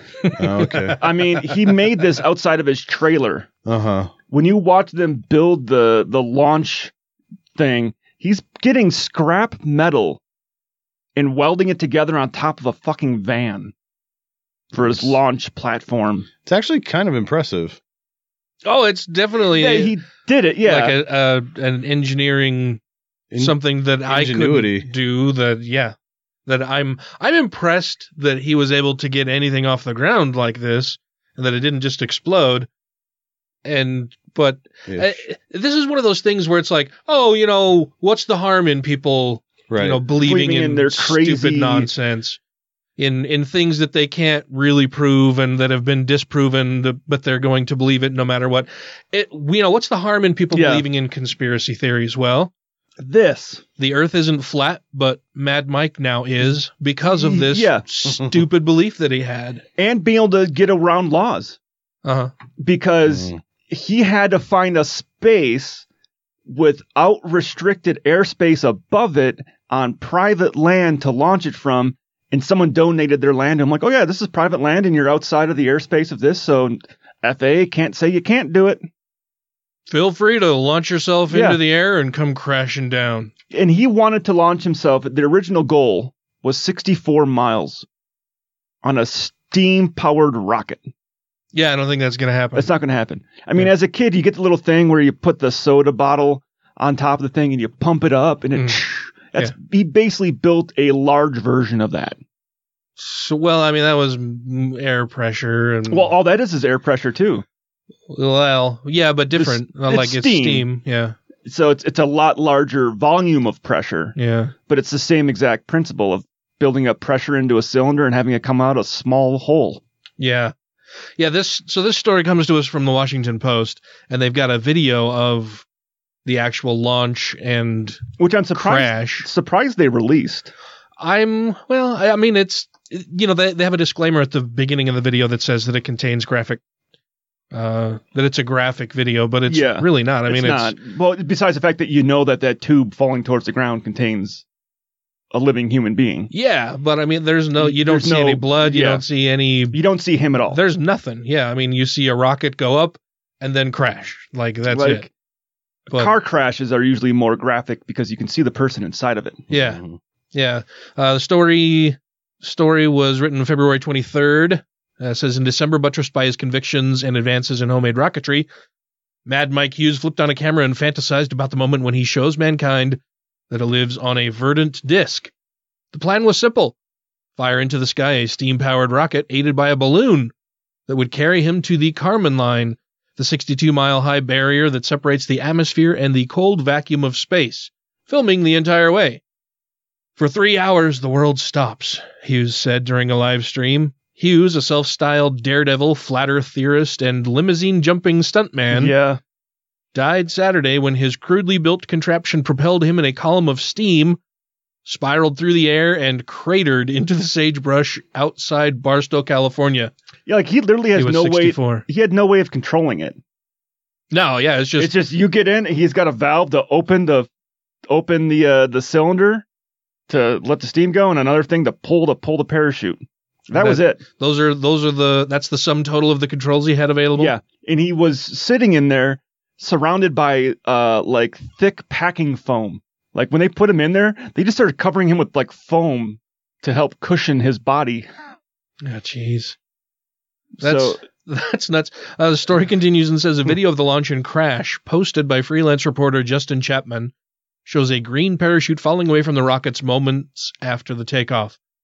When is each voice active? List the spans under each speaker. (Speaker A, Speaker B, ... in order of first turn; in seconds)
Speaker A: 0.3-0.9, 18.6-19.9, 20.6-22.8, 23.4-25.9, 26.5-32.7, 33.6-42.4, 43.0-52.5, 53.8-59.6, 62.0-62.3, 79.9-83.3, 91.5-92.7, 103.0-106.1, 108.1-111.2, 114.2-114.5, 120.2-120.5, 121.2-125.6, 126.2-129.3, 131.0-136.6, 137.5-140.8, 146.3-149.8, 150.5-155.1, 159.5-159.8, 160.3-168.5, 169.2-175.3, 175.9-176.7, 177.4-180.3, 180.9-189.2, 190.2-198.9, 199.9-204.2, 204.8-209.9, 210.9-211.8, 214.1-214.9, 223.5-227.3, 238.8-239.6, 240.6-247.1, 247.6-251.6
Speaker B: 0.4-1.0, 3.6-4.1, 16.4-17.8, 23.3-24.9, 34.9-35.2, 39.7-40.0, 63.1-63.4, 159.5-160.0
Speaker C: 0.9-3.5, 4.3-6.9, 7.5-10.2, 11.2-13.7, 14.7-16.3, 19.6-21.0, 40.2-41.9, 50.5-50.8, 53.0-53.6, 57.1-57.8, 59.8-61.6, 62.6-65.8, 66.5-78.8, 81.3-81.6, 83.5-87.8, 88.8-90.9, 92.5-102.2, 105.9-107.4, 109.3-110.7, 111.4-114.1, 114.7-119.8, 128.2-130.5, 139.5-144.4, 145.3-146.3, 147.6-149.0, 149.7-150.6, 154.7-155.1, 155.9-159.4, 198.7-199.2, 210.3-213.2, 214.8-217.3, 217.9-219.4, 220.1-224.0, 227.2-238.1, 240.6-241.0